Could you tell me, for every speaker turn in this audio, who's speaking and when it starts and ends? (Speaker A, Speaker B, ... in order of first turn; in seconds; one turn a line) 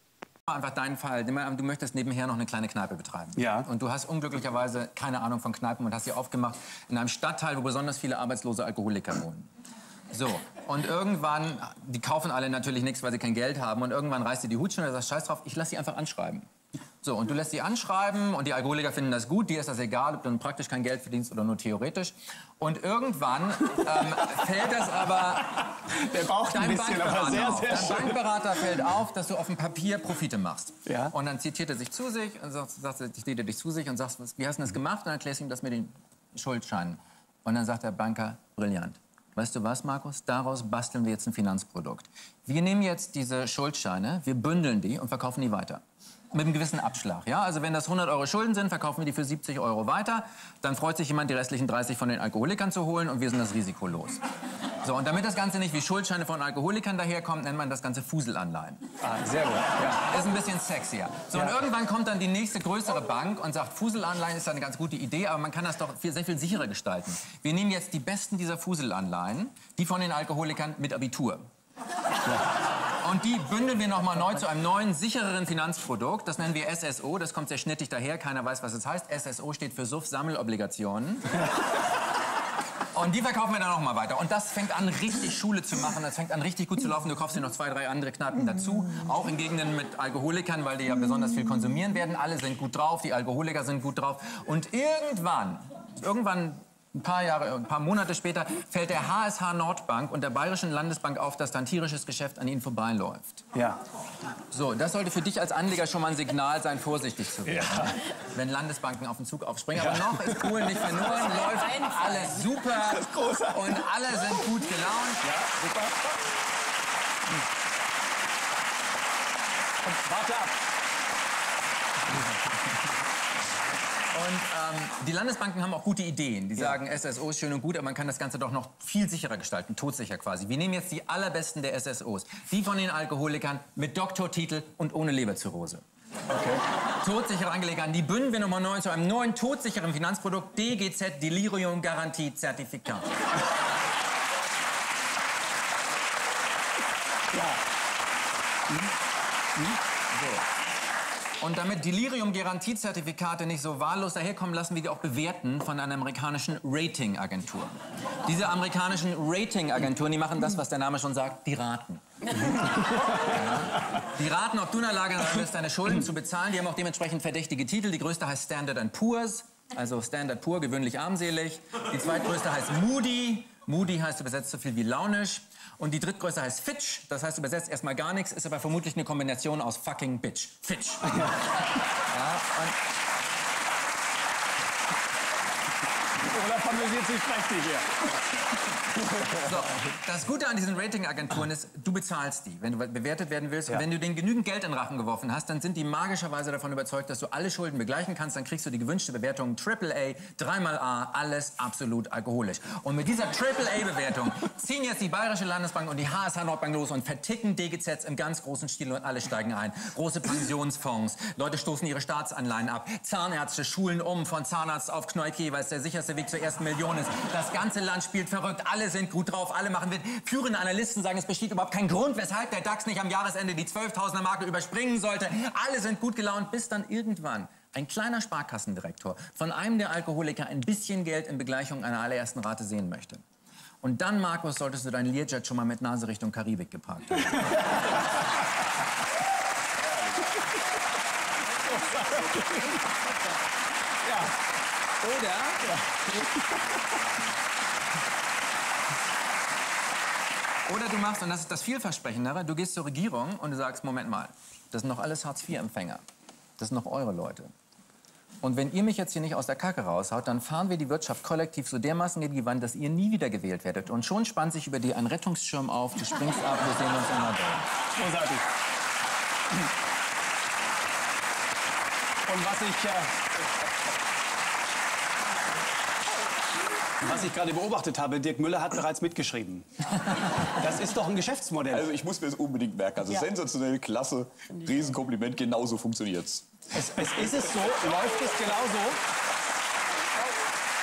Speaker A: 0.5-9.5
Speaker B: 3.4-3.7
Speaker A: 10.1-16.5
Speaker A: 17.0-25.8
Speaker B: 25.9-28.2
Speaker A: 26.5-54.2
Speaker B: 30.9-31.1
Speaker A: 54.8-58.8
Speaker B: 59.0-60.0
Speaker A: 59.9-71.4
Speaker A: 73.0-81.4
Speaker A: 82.9-103.4
Speaker B: 103.5-103.8
Speaker A: 104.5-115.3
Speaker B: 107.5-107.9
Speaker B: 109.8-111.9
Speaker B: 112.8-113.8
Speaker B: 115.2-116.0
Speaker B: 119.8-120.5
Speaker A: 124.1-135.8
Speaker B: 136.3-136.6
Speaker A: 136.8-143.1
Speaker B: 147.3-147.6
Speaker A: 150.1-150.4
Speaker A: 151.4-181.4
Speaker A: 181.9-182.8
Speaker B: 186.2-188.1
Speaker A: 189.2-233.2
Speaker A: 233.8-237.6
Speaker B: 241.6-242.8
Speaker B: 244.1-244.3
Speaker A: 245.0-245.7
Speaker B: 245.8-246.2
Speaker A: 250.7-256.0
Speaker A: 256.6-257.5
Speaker A: 258.4-267.6
Speaker B: 267.9-268.4
Speaker B: 272.2-273.1
Speaker B: 277.0-281.9
Speaker C: 281.7-286.5
Speaker B: 286.7-289.0